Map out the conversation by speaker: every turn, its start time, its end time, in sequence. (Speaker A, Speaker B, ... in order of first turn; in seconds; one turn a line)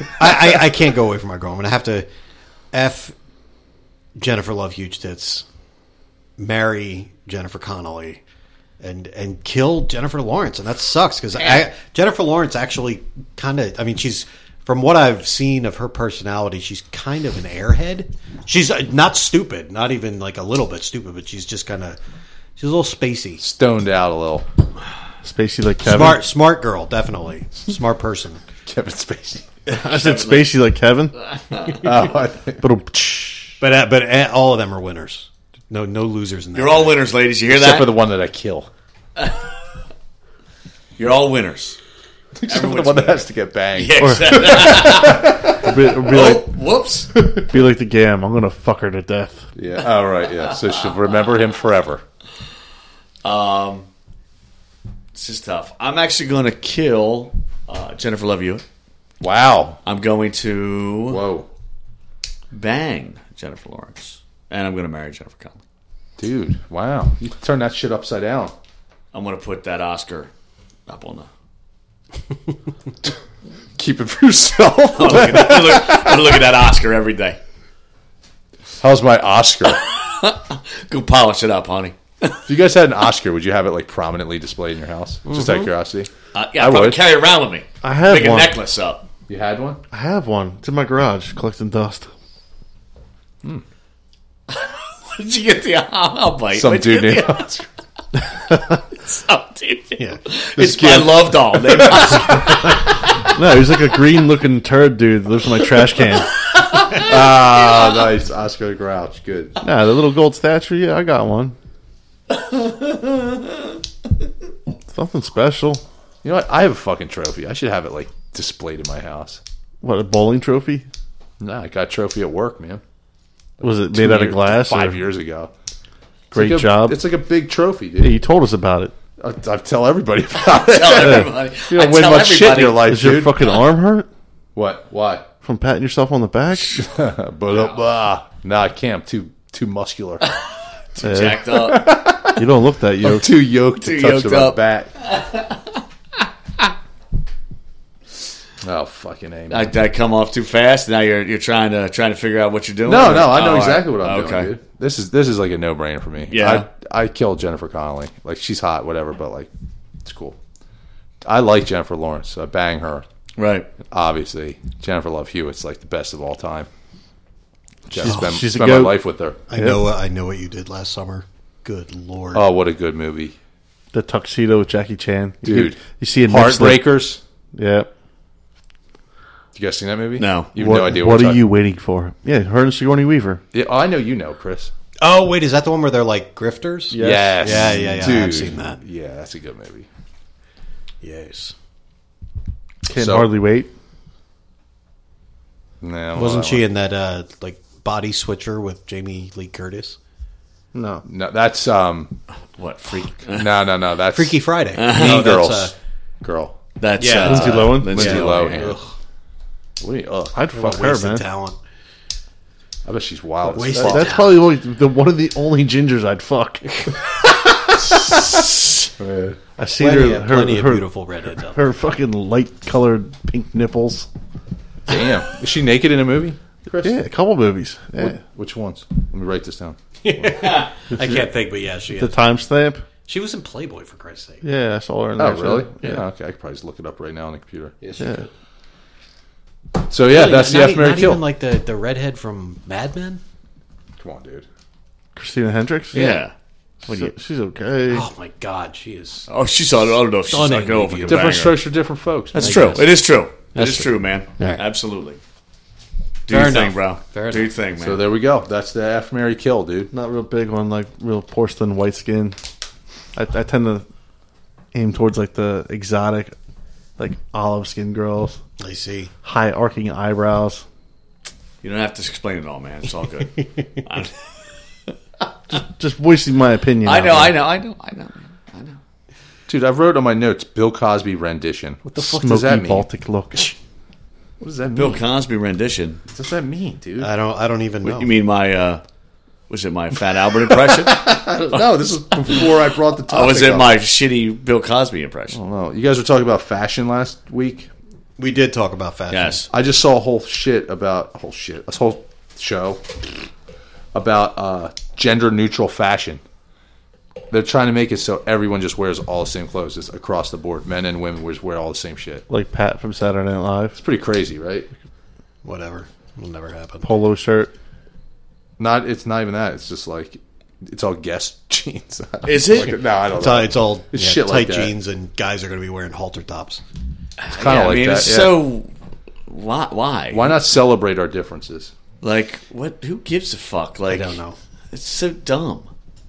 Speaker A: 0.2-2.1
Speaker A: 2.7-3.1
Speaker A: 4.2-5.5
Speaker A: 6.4-8.2
Speaker A: 8.8-22.0
Speaker A: 22.6-23.4
Speaker B: 23.4-24.4
Speaker C: 25.2-26.2
Speaker A: 25.8-28.4
Speaker B: 28.7-29.5
Speaker C: 29.7-31.2
Speaker D: 29.8-30.5
Speaker D: 31.5-31.8
Speaker B: 31.7-32.6
Speaker C: 32.6-33.6
Speaker A: 33.6-37.0
Speaker D: 36.5-38.0
Speaker B: 37.5-38.7
Speaker D: 41.0-41.8
Speaker B: 42.4-45.7
Speaker D: 42.5-47.1
Speaker C: 44.0-44.8
Speaker C: 45.5-46.5
Speaker C: 47.3-49.5
Speaker B: 49.6-52.0
Speaker D: 53.2-53.9
Speaker D: 55.1-58.6
Speaker B: 59.2-59.8
Speaker D: 59.9-61.2
Speaker B: 61.1-61.5
Speaker D: 62.5-65.6
Speaker B: 66.2-68.5
Speaker D: 69.1-70.3
Speaker D: 70.9-71.3
Speaker B: 73.8-76.4
Speaker D: 75.0-77.4
Speaker B: 78.8-79.8
Speaker D: 79.9-82.4
Speaker B: 82.5-87.0
Speaker A: 85.3-85.7
Speaker D: 86.3-89.1
Speaker C: 87.8-88.6
Speaker B: 89.3-89.8
Speaker C: 89.9-92.1
Speaker D: 94.5-97.5
Speaker B: 96.5-97.7
Speaker D: 99.0-102.8
Speaker B: 100.6-102.4
Speaker C: 103.2-106.3
Speaker B: 106.9-109.6
Speaker C: 109.6-111.6
Speaker D: 112.3-113.7
Speaker C: 114.9-115.8
Speaker B: 116.2-119.4
Speaker C: 119.8-120.9
Speaker B: 121.4-122.8
Speaker B: 123.6-125.5
Speaker C: 123.6-125.0
Speaker C: 126.3-127.0
Speaker B: 126.3-128.2
Speaker C: 128.0-128.9
Speaker B: 129.2-133.5
Speaker D: 130.6-132.9
Speaker C: 132.8-134.1
Speaker B: 134.6-135.3
Speaker C: 135.4-136.8
Speaker B: 136.7-140.2
Speaker D: 140.9-141.9
Speaker C: 141.0-141.5
Speaker B: 141.5-142.5
Speaker C: 142.2-143.3
Speaker B: 143.0-144.9
Speaker D: 143.8-145.8
Speaker B: 148.6-149.7
Speaker D: 149.5-154.5
Speaker B: 152.9-159.5
Speaker D: 156.3-156.7
Speaker B: 160.0-160.4
Speaker B: 161.2-163.1
Speaker D: 163.4-163.7
Speaker B: 163.9-166.7
Speaker B: 167.9-169.4
Speaker C: 167.9-169.0
Speaker A: 169.5-172.4
Speaker C: 169.5-169.8
Speaker B: 172.3-173.4
Speaker C: 173.9-176.9
Speaker B: 175.4-177.2
Speaker C: 177.5-177.9
Speaker B: 179.6-181.5
Speaker D: 180.2-180.5
Speaker C: 180.6-183.4
Speaker B: 183.5-184.7
Speaker A: 185.0-188.8
Speaker C: 186.9-188.2
Speaker B: 187.0-189.9
Speaker A: 191.0-191.6
Speaker C: 192.9-193.7
Speaker B: 192.9-193.3
Speaker B: 195.8-196.6
Speaker A: 196.2-200.0
Speaker C: 200.7-201.1
Speaker B: 201.1-202.2
Speaker D: 202.6-203.5
Speaker B: 203.3-206.6
Speaker A: 204.1-205.7
Speaker D: 204.8-205.3
Speaker D: 206.8-208.8
Speaker A: 207.0-208.8
Speaker C: 207.2-208.3
Speaker B: 207.9-208.8
Speaker B: 209.8-210.4
Speaker C: 210.3-211.2
Speaker A: 210.5-211.6
Speaker B: 212.8-214.1
Speaker A: 213.5-214.4
Speaker C: 213.6-216.9
Speaker B: 217.7-218.3
Speaker B: 219.0-219.4
Speaker C: 219.6-220.8
Speaker A: 219.8-221.6
Speaker C: 221.4-224.1
Speaker B: 224.9-227.0
Speaker C: 226.8-228.2
Speaker B: 228.0-230.6
Speaker A: 230.0-232.2
Speaker C: 232.0-232.8
Speaker A: 233.1-234.4
Speaker C: 234.4-236.0
Speaker B: 235.2-237.9
Speaker C: 238.0-238.3
Speaker B: 239.9-241.2
Speaker A: 240.1-243.2
Speaker B: 244.0-244.4
Speaker C: 245.2-246.0
Speaker D: 245.9-246.3
Speaker A: 245.9-246.2
Speaker C: 246.9-248.1
Speaker A: 247.9-249.3
Speaker D: 249.3-251.6
Speaker A: 250.3-251.3
Speaker B: 251.1-252.8
Speaker D: 252.3-255.2
Speaker A: 252.4-252.9
Speaker A: 253.6-254.6
Speaker D: 256.3-258.0
Speaker A: 256.3-257.5
Speaker B: 257.8-259.9
Speaker C: 259.9-262.4
Speaker C: 263.1-263.9
Speaker C: 264.7-266.4
Speaker C: 267.0-268.4
Speaker A: 268.6-269.1
Speaker C: 269.2-270.6
Speaker D: 271.6-274.1
Speaker C: 275.5-277.4
Speaker D: 276.9-278.8
Speaker B: 279.5-282.9
Speaker C: 281.9-283.6
Speaker B: 284.4-285.0
Speaker D: 284.8-286.0
Speaker B: 286.1-287.1
Speaker A: 287.0-288.1
Speaker D: 287.8-288.8
Speaker D: 289.5-291.2
Speaker B: 290.5-293.8
Speaker D: 293.1-295.4
Speaker B: 295.3-297.7
Speaker A: 298.2-299.4
Speaker D: 299.1-299.5
Speaker B: 299.5-303.0
Speaker B: 303.9-306.2
Speaker B: 307.3-312.2
Speaker C: 312.3-313.8
Speaker B: 313.8-314.7
Speaker A: 315.4-316.9
Speaker C: 316.8-317.5
Speaker B: 318.6-324.7
Speaker D: 322.2-322.8
Speaker A: 323.1-326.6
Speaker D: 327.2-328.7
Speaker B: 327.3-328.4
Speaker D: 329.3-330.3
Speaker B: 330.1-331.7
Speaker D: 332.0-334.2
Speaker A: 333.9-334.4
Speaker D: 334.7-335.7